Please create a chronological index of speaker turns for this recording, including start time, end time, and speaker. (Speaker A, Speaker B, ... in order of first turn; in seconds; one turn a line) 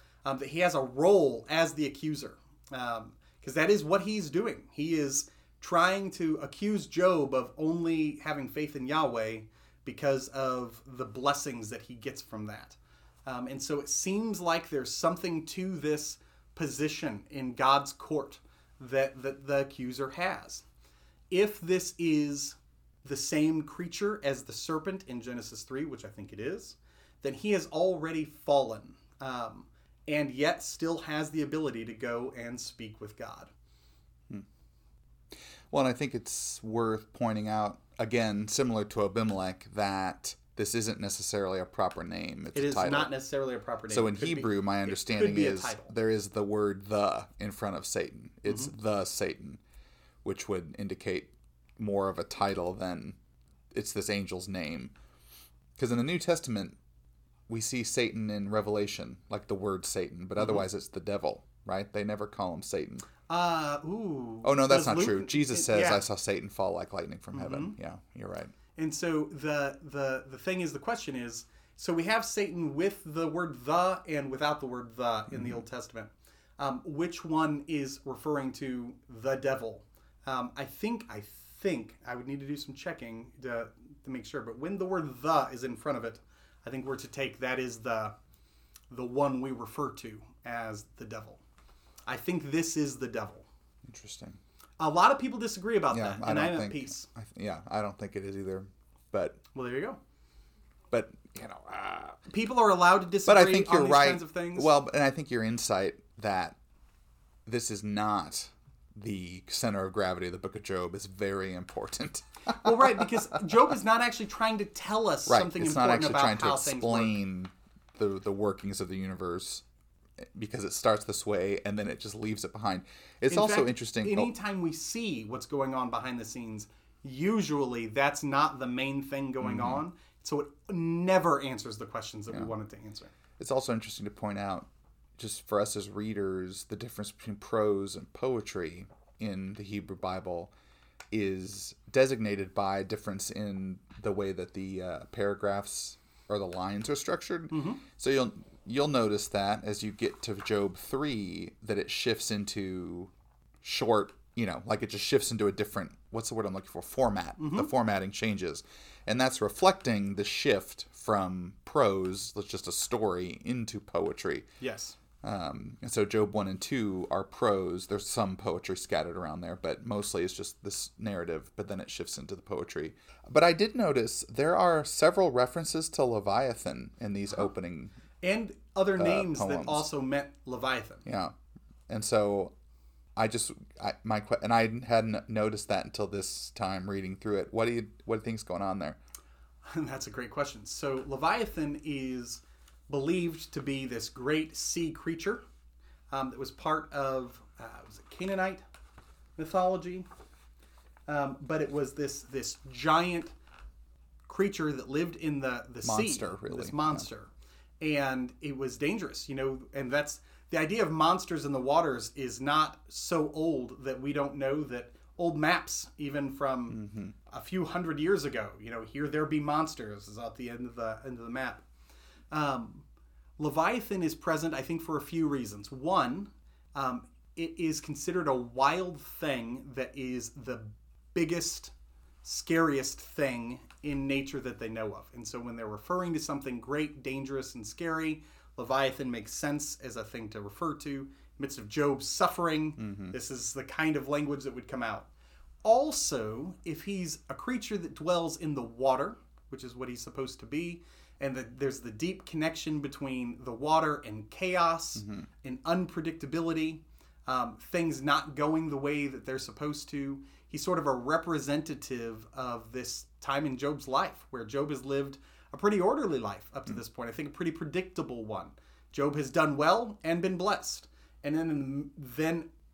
Speaker A: 0.2-20.6
Speaker A: 21.3-33.5
Speaker B: 35.7-43.1
Speaker A: 42.5-45.9
Speaker B: 43.9-49.6
Speaker A: 48.5-48.7
Speaker B: 50.2-53.2
Speaker B: 53.7-54.9
Speaker B: 55.8-56.8
Speaker B: 57.5-63.1
Speaker A: 63.3-66.0
Speaker B: 64.4-68.5
Speaker A: 67.3-67.8
Speaker A: 68.8-88.2
Speaker B: 75.3-75.6
Speaker A: 88.9-91.4
Speaker A: 92.1-93.5
Speaker B: 93.9-94.4
Speaker A: 94.8-97.1
Speaker B: 95.9-99.4
Speaker A: 99.5-100.0
Speaker B: 100.9-102.2
Speaker A: 102.3-104.7
Speaker B: 103.2-106.6
Speaker B: 107.5-113.1
Speaker A: 112.6-117.2
Speaker B: 115.3-119.6
Speaker B: 120.3-124.3
Speaker A: 123.3-133.1
Speaker B: 129.4-129.8
Speaker B: 133.4-140.5
Speaker B: 141.1-153.1
Speaker A: 147.5-147.8
Speaker B: 153.6-164.5
Speaker A: 157.4-157.7
Speaker A: 164.6-165.0
Speaker B: 165.2-177.9
Speaker A: 178.2-181.0
Speaker B: 179.0-179.9
Speaker B: 181.1-181.3
Speaker B: 181.9-182.5
Speaker B: 183.2-189.0
Speaker A: 189.7-195.4
Speaker A: 196.1-198.6
Speaker A: 199.4-200.1
Speaker A: 201.1-203.3
Speaker A: 204.3-221.6
Speaker B: 205.8-207.1
Speaker B: 216.7-217.2
Speaker A: 222.3-222.8
Speaker A: 223.4-231.7
Speaker A: 232.2-245.1
Speaker B: 242.8-243.2
Speaker A: 245.6-272.5
Speaker B: 255.0-255.3